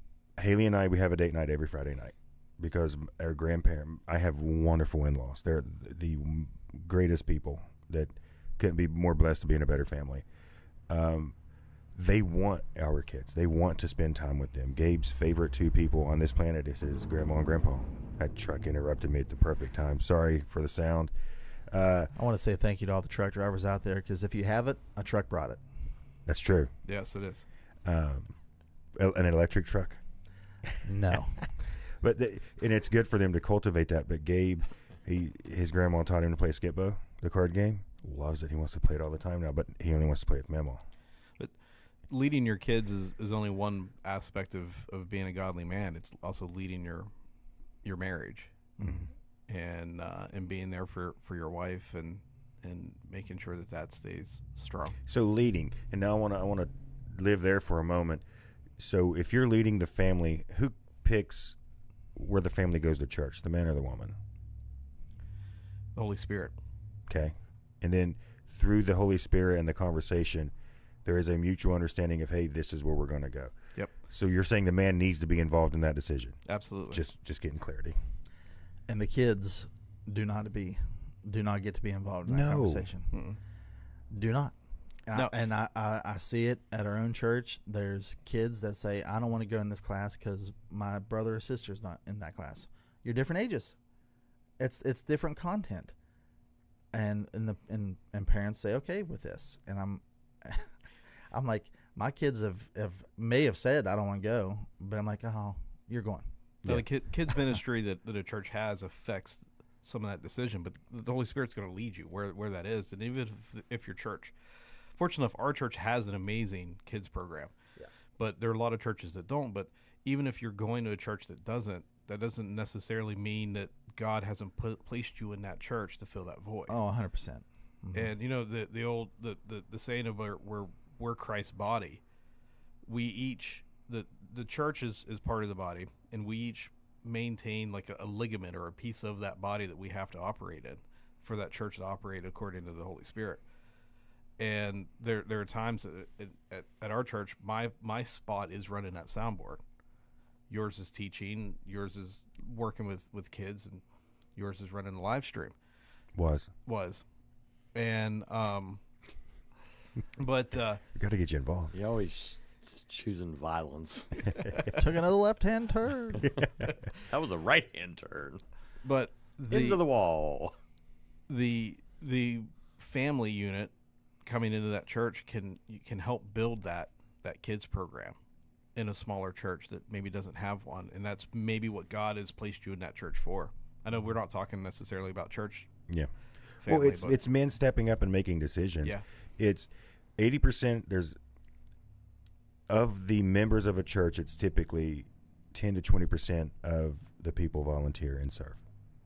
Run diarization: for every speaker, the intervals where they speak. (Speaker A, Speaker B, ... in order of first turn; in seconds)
Speaker A: 0.4-10.2, 10.9-11.3, 11.9-21.1, 21.7-22.1, 26.3-26.7, 27.9-28.4, 29.0-30.0, 32.0-40.8, 55.1-58.2, 58.8-61.6, 62.1-64.2, 67.1-70.5, 71.0-78.0, 82.3-82.9, 106.6-106.9, 156.2-156.5, 160.9-161.7, 166.2-166.7, 186.7-191.2, 192.7-198.6
Speaker B: 22.1-25.6, 30.9-31.4, 48.8-49.1, 78.9-83.1, 84.1-93.8, 94.6-95.9, 96.9-100.7, 101.3-106.3, 126.7-128.1, 164.7-166.3
Speaker C: 26.9-27.5, 42.1-47.1, 47.8-48.5, 49.5-55.0, 66.0-66.6, 76.5-77.0, 83.1-83.4, 106.7-114.3, 114.9-117.5, 118.2-126.8, 127.9-132.0, 132.9-143.4, 144.4-149.6, 150.5-153.8, 154.4-155.6, 156.7-157.1, 157.7-158.8, 160.2-160.8, 168.8-169.8, 171.3-173.7, 174.2-178.2, 178.8-185.7, 186.6-187.2
Speaker D: 161.7-164.7, 167.0-168.4, 169.5-170.6